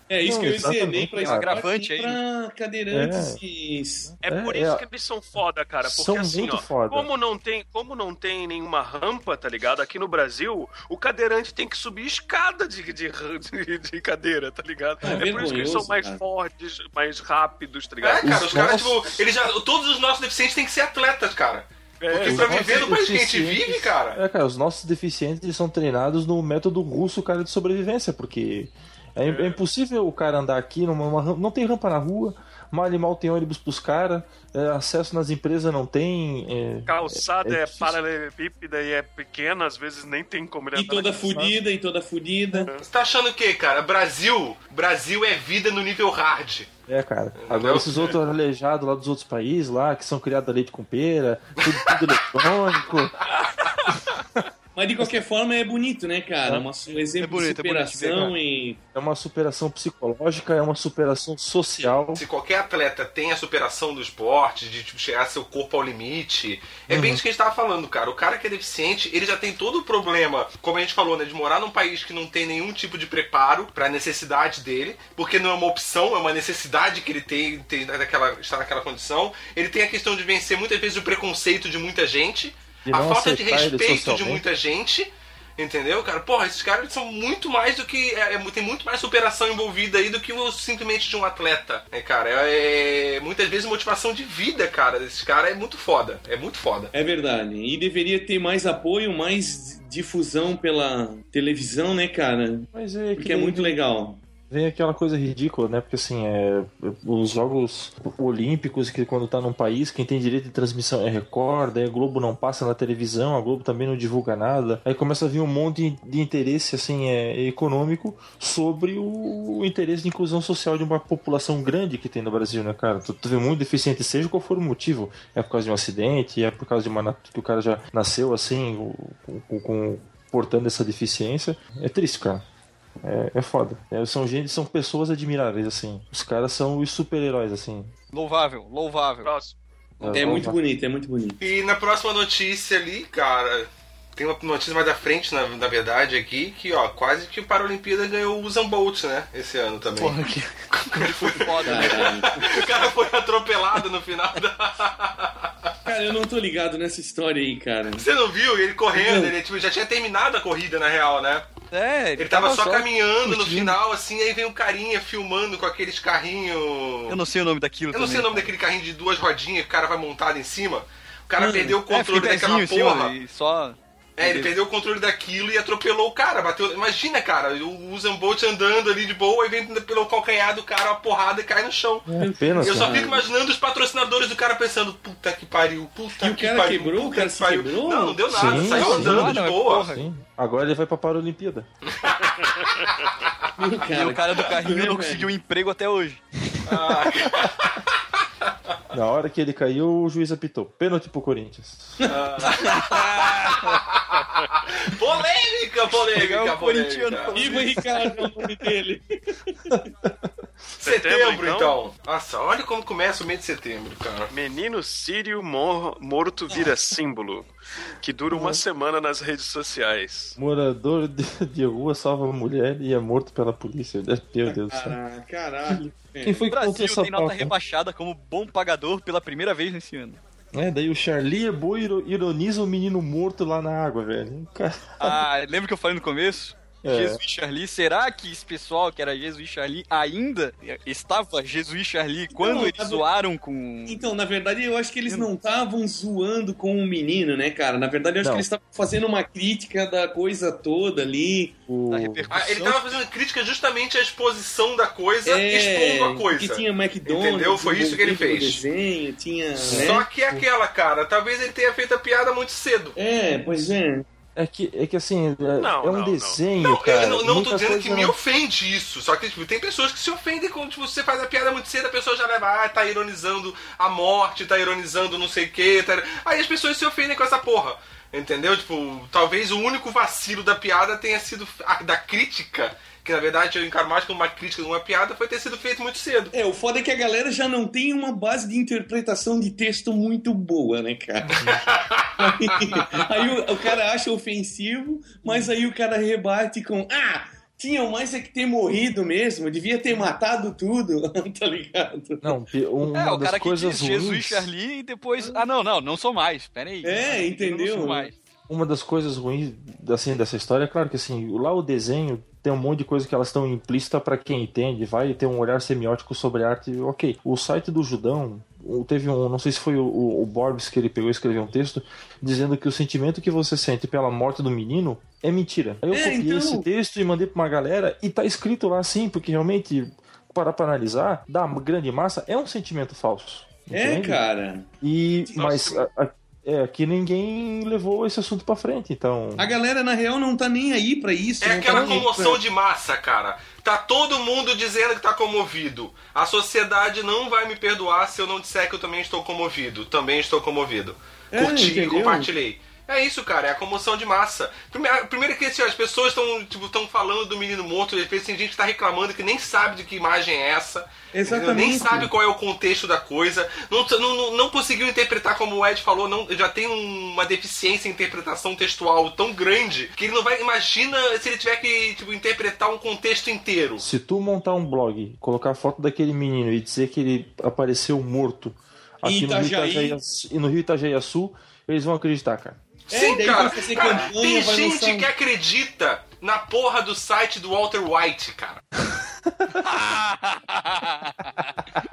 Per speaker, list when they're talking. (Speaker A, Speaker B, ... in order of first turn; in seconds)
Speaker A: 0.1-4.2, 15.1-16.2, 40.8-42.7, 54.8-58.8, 96.9-104.2, 140.1-141.4, 151.6-152.6, 155.8-158.1, 158.9-159.3, 171.4-171.8, 182.2-183.3, 186.2-188.5, 193.6-195.3, 207.3-209.8, 224.5-226.4, 242.3-243.1, 243.9-251.6, 255.2-260.1, 263.0-264.1, 286.3-291.5, 292.2-302.2, 306.8-308.1, 325.9-326.7, 333.7-334.7, 339.4-342.4, 351.3-352.3, 361.1-362.1, 379.1-380.0, 382.9-385.1
Speaker B: 0.2-1.6, 2.9-3.4, 4.1-4.8, 5.8-7.1, 18.2-19.1, 22.2-38.0, 41.3-41.6, 46.9-53.2, 58.9-62.2, 66.9-67.2, 82.9-84.4, 102.7-103.8, 104.5-132.4, 133.0-137.9, 140.0-140.6, 182.1-183.0, 188.3-191.7, 198.9-202.1, 209.7-210.3, 218.3-218.6, 220.4-225.0, 225.7-227.5, 230.5-235.2, 236.8-237.2, 251.7-252.3, 259.6-260.4, 264.4-268.2, 302.2-304.5, 308.5-334.2, 334.8-339.5, 373.8-382.6, 388.9-389.5
Speaker C: 1.2-2.2, 57.2-58.3, 138.1-139.4, 150.0-152.3, 161.7-163.8, 167.1-168.5, 171.9-174.5, 188.7-190.0, 193.9-196.2, 202.6-203.8, 206.1-207.7, 226.5-230.2, 235.0-244.0, 251.9-252.8, 302.9-308.1, 389.6-391.5
Speaker D: 4.2-18.7, 22.0-22.9, 29.2-29.6, 36.9-41.4, 42.6-42.9, 139.2-139.6, 192.4-193.1, 210.8-211.8, 214.3-220.4, 265.6-266.4, 335.3-335.9
Speaker E: 18.0-24.2, 42.8-46.7, 47.4-48.1, 62.1-96.9, 141.4-150.2, 150.9-155.7, 157.9-161.5, 162.2-167.2, 167.9-173.1, 174.2-182.1, 182.6-189.9, 191.9-192.7, 196.7-197.8, 202.1-203.8, 204.6-207.4, 210.8-214.3, 252.3-258.6, 259.7-263.0, 266.6-286.3, 291.5-292.4, 341.4-373.8, 382.9-388.6